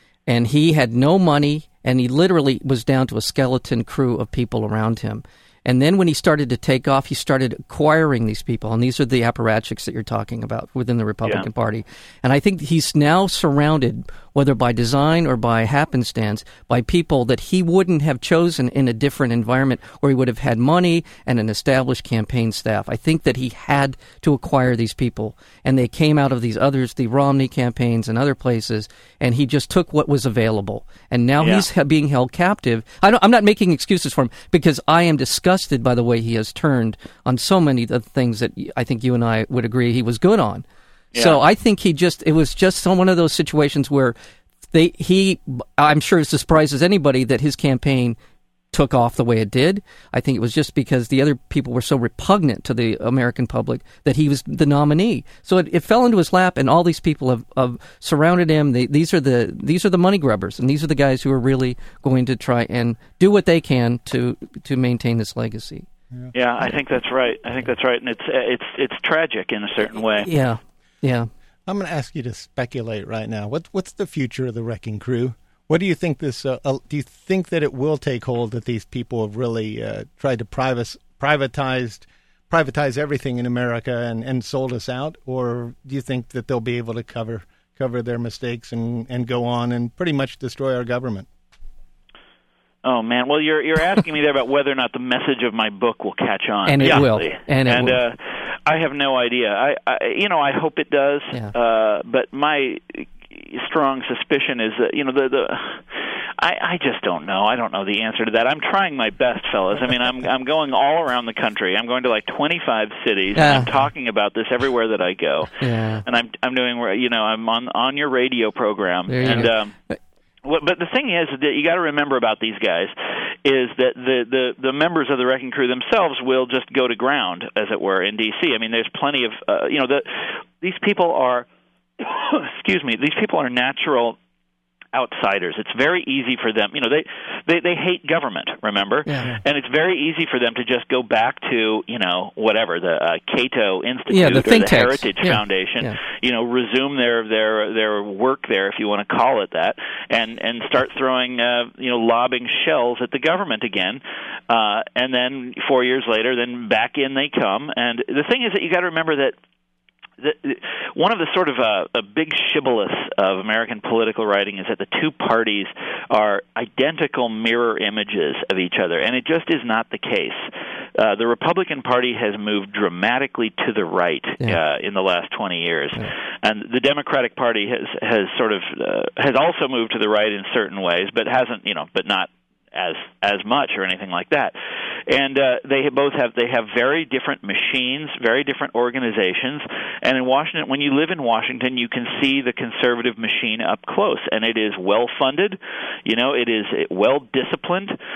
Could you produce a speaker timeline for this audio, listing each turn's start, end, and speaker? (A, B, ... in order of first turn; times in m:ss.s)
0:00.3-0:40.6 A
0:31.4-0:31.7 B
0:41.1-0:41.4 B
0:41.2-0:44.1 A
0:44.7-0:48.2 A
0:48.7-1:05.9 A
1:06.3-1:10.3 B
1:10.2-1:11.3 A
1:11.6-1:31.3 C
1:32.8-1:59.7 B
1:36.6-1:38.0 A
1:36.8-1:37.1 C
1:53.4-1:53.7 A
1:55.6-1:56.0 A
1:59.1-2:00.0 A
2:00.4-2:11.5 B
2:12.0-2:14.2 B
2:14.9-2:39.4 B
2:19.1-2:19.4 A
2:24.1-2:26.0 A
2:40.2-3:04.6 B
3:05.1-3:18.0 B